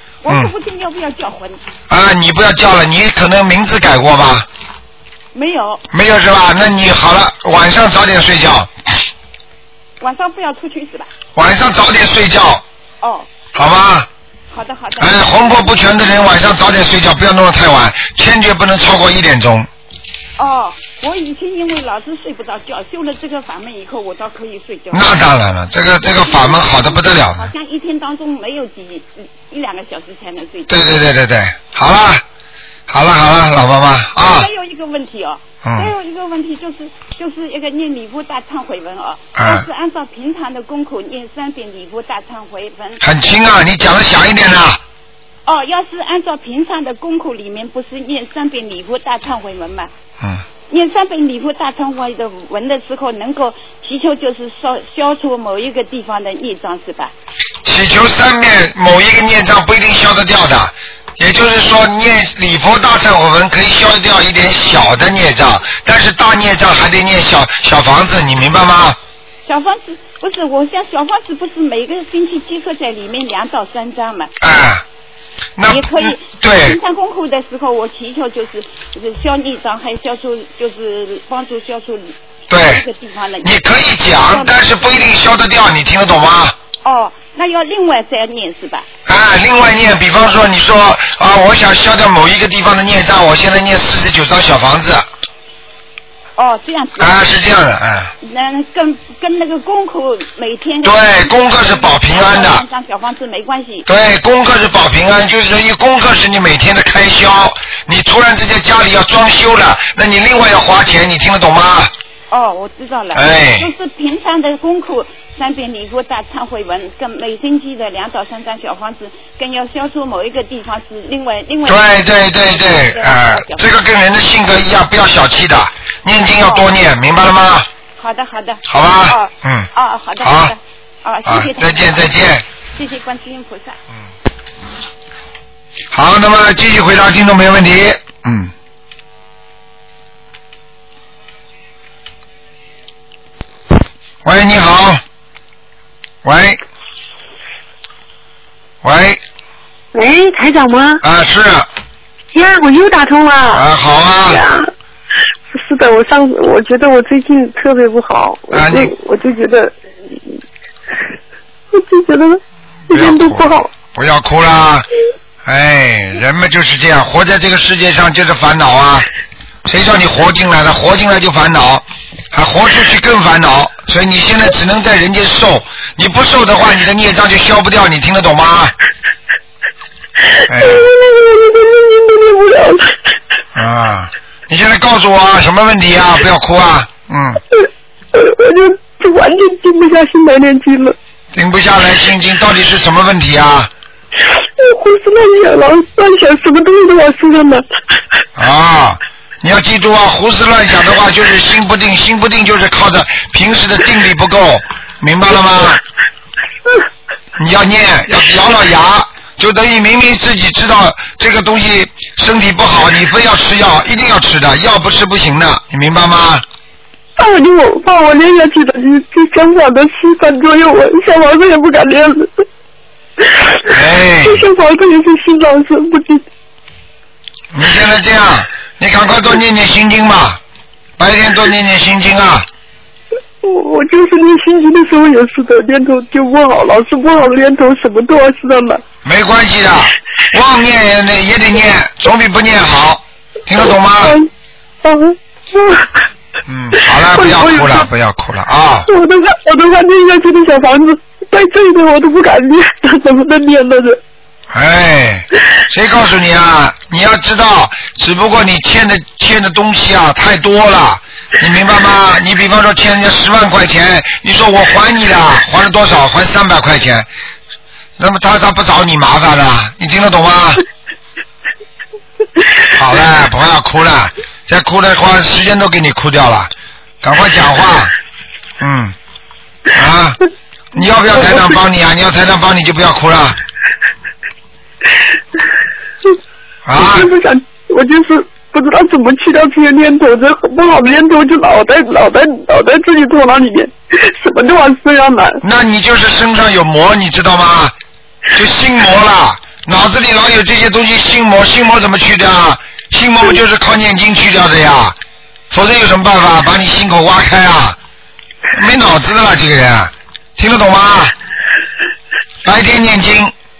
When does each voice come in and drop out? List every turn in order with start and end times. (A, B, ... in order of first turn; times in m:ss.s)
0:00.2-0:01.6 A
0:01.9-0:04.5 B
0:05.3-0:05.8 A
0:05.9-0:08.7 B
0:10.0-0:11.1 A
0:11.3-0:12.6 B
0:13.0-0:13.3 A
0:13.5-0:14.1 B
0:14.5-0:16.2 A
0:15.0-0:19.7 B
0:20.4-0:25.3 A
0:24.9-0:27.5 B
0:26.0-0:31.0 A
0:30.7-0:32.2 B
0:32.9-0:34.5 B
0:34.2-0:43.0 A
0:35.6-0:35.9 B
0:39.4-0:39.6 B
0:43.0-0:44.8 B
0:45.4-0:49.9 A
0:50.7-0:57.1 A
0:57.6-1:09.0 B
1:09.4-1:14.3 A
1:14.4-1:14.8 B
1:15.6-1:16.8 B
1:15.6-1:24.7 A
1:22.5-1:22.8 B
1:23.4-1:26.5 B
1:26.8-1:28.9 A
1:29.0-1:35.0 B
1:36.4-1:37.2 A
1:37.0-1:38.1 B
1:38.2-1:43.9 A
1:40.8-1:42.6 B
1:43.8-1:51.9 B
1:52.3-2:03.7 A
1:53.1-1:53.7 B
2:01.6-2:07.7 B
2:06.4-2:06.7 A
2:08.0-2:12.2 A
2:08.7-2:09.7 B
2:10.2-2:10.5 B
2:11.2-2:12.4 B
2:12.7-2:13.8 A
2:15.9-2:18.5 B
2:24.2-2:25.0 B
2:26.2-2:26.6 B
2:28.8-2:29.2 B
2:29.9-2:31.0 C
2:31.0-2:31.7 B
2:32.3-2:33.6 C
2:33.5-2:34.4 B
2:34.2-2:34.7 C
2:35.5-2:39.8 C
2:38.5-2:38.9 B
2:41.7-2:43.7 C
2:42.9-2:44.9 B
2:45.4-2:49.0 B
2:49.6-2:58.7 B
3:00.5-3:00.9 B
3:00.5-3:03.0 C
3:03.6-3:07.4 B
3:07.5-3:11.0 C
3:11.3-3:13.7 B
3:14.3-3:17.6 C
3:18.4-3:25.8 B
3:27.4-3:36.4 B
3:37.2-3:42.4 C
3:43.2-3:46.2 C
3:43.7-3:44.5 B
3:47.5-3:50.4 B
3:51.0-3:52.5 B
3:53.4-3:58.8 C
3:59.0-4:04.2 B
4:04.0-4:04.3 C
4:04.8-4:06.0 C
4:06.5-4:08.9 B
4:07.0-4:07.9 C
4:08.9-4:14.0 C
4:14.5-4:27.1 B
4:28.0-4:30.6 B
4:32.7-4:36.5 B
4:37.0-4:37.9 B
4:38.6-4:38.9 B
4:39.7-4:40.2 B
4:40.7-4:43.4 B
4:41.1-4:41.5 C
4:46.6-4:47.1 B
4:46.8-4:55.4 C
4:55.4-4:57.7 B
4:58.3-5:05.0 B
5:05.5-5:07.8 B
5:08.5-5:11.1 B
5:12.4-5:13.3 B